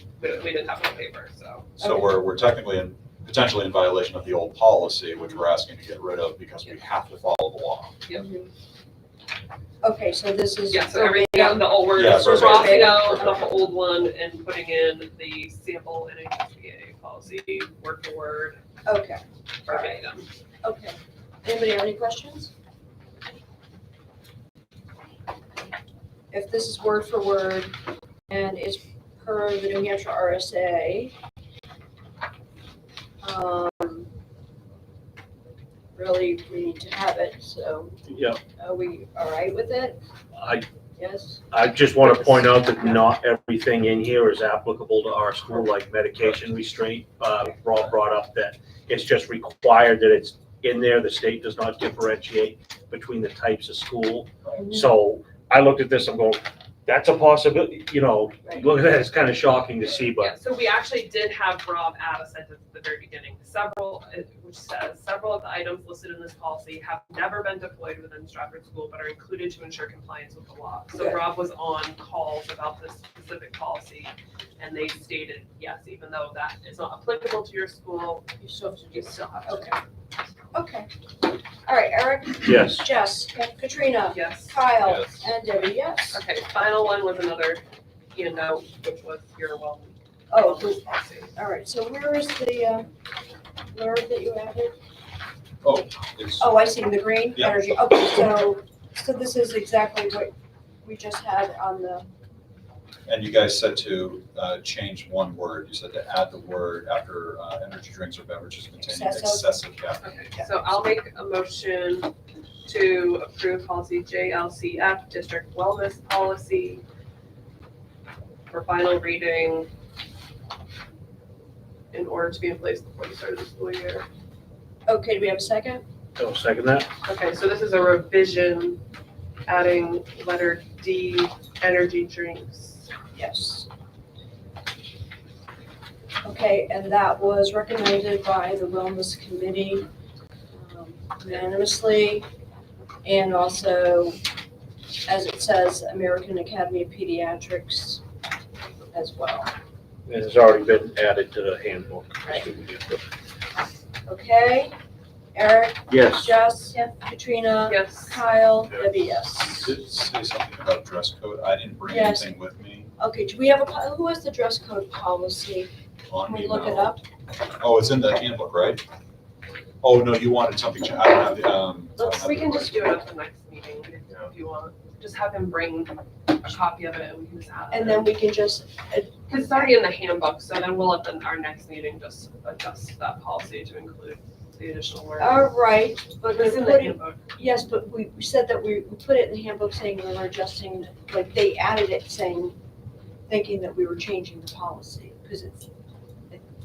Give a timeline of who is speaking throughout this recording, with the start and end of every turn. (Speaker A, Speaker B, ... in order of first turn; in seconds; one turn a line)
Speaker A: 0.2-1.7
Speaker B: 1.8-7.9
Speaker C: 1.8-2.1
Speaker C: 8.1-8.5
Speaker C: 9.8-13.4
Speaker A: 10.7-18.6
Speaker B: 11.9-13.4
Speaker C: 18.8-19.9
Speaker A: 19.6-20.3
Speaker C: 20.6-22.5
Speaker C: 26.3-27.8
Speaker C: 28.3-31.1
Speaker C: 33.2-34.1
Speaker C: 35.9-38.0
Speaker D: 38.0-38.4
Speaker C: 38.6-40.0
Speaker D: 40.3-40.6
Speaker C: 41.0-41.4
Speaker D: 41.5-60.3
Speaker C: 42.0-42.9
Speaker C: 54.5-54.9
Speaker A: 60.2-78.3
Speaker C: 71.0-71.2
Speaker C: 78.4-79.8
Speaker A: 78.9-79.8
Speaker C: 80.5-80.9
Speaker C: 81.6-86.2
Speaker D: 82.4-82.8
Speaker A: 84.1-84.7
Speaker B: 84.8-85.2
Speaker A: 86.1-87.6
Speaker A: 88.1-91.3
Speaker C: 90.3-90.8
Speaker C: 91.3-92.9
Speaker C: 93.7-94.7
Speaker B: 95.6-96.7
Speaker C: 96.4-102.1
Speaker B: 97.3-97.6
Speaker B: 103.1-110.1
Speaker C: 108.8-109.5
Speaker A: 110.0-112.1
Speaker C: 110.3-110.7
Speaker A: 112.6-116.8
Speaker A: 118.5-119.7
Speaker A: 121.9-124.0
Speaker C: 124.9-125.8
Speaker D: 126.2-126.9
Speaker A: 127.0-128.8
Speaker A: 129.5-132.9
Speaker C: 133.1-133.7
Speaker C: 136.2-139.9
Speaker C: 140.5-142.3
Speaker C: 143.0-144.2
Speaker C: 145.0-148.0
Speaker C: 148.9-149.5
Speaker D: 150.1-153.0
Speaker C: 154.1-154.7
Speaker C: 155.3-159.8
Speaker D: 155.9-156.3
Speaker A: 157.7-158.2
Speaker B: 159.4-162.9
Speaker C: 161.9-162.3
Speaker C: 163.0-165.7
Speaker B: 166.1-166.9
Speaker C: 166.2-167.0
Speaker B: 167.6-168.8
Speaker B: 169.8-172.9
Speaker A: 172.0-178.1
Speaker C: 177.7-179.8
Speaker A: 179.3-185.5
Speaker C: 185.2-192.6
Speaker A: 186.3-187.2
Speaker C: 193.3-195.7